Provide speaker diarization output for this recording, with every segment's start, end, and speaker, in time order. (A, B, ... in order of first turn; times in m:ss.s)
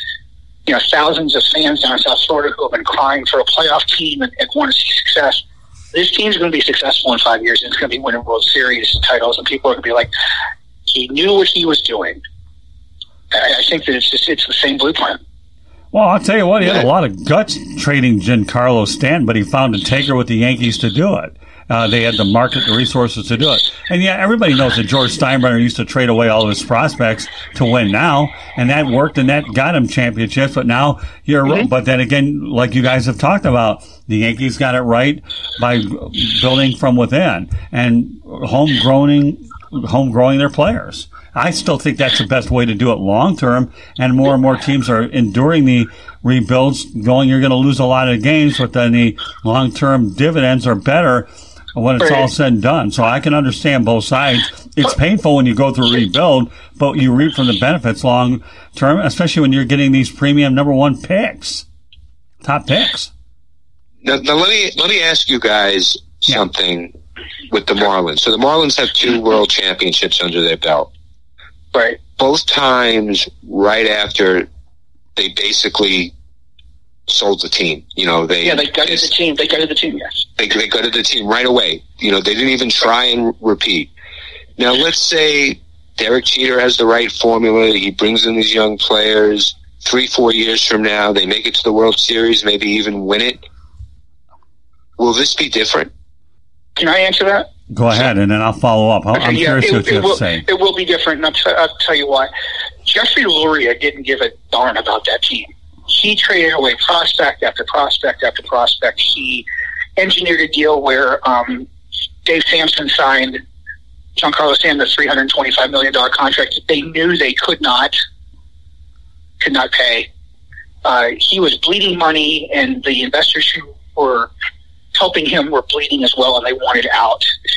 0:00.7-0:10.1 A
0:10.9-0:12.2 A
0:13.3-0:15.2 A
0:15.9-1:01.6 B
0:16.6-0:16.9 C
1:02.4-1:03.1 B
1:04.0-1:06.9 C
1:07.5-1:10.9 C
1:11.7-1:12.0 A
1:12.2-1:14.5 C
1:15.2-1:16.1 C
1:17.1-1:19.1 C
1:18.4-1:20.2 A
1:20.4-1:23.9 C
1:24.6-1:33.4 C
1:35.0-1:35.9 C
1:36.8-1:37.5 A
1:37.7-1:40.4 B
1:39.1-1:42.3 A
1:42.8-1:49.5 A
1:50.0-1:51.7 A
1:52.2-1:53.4 A
1:54.2-1:57.9 A
1:59.4-2:00.1 A
2:00.8-2:04.3 A
2:04.9-2:07.3 A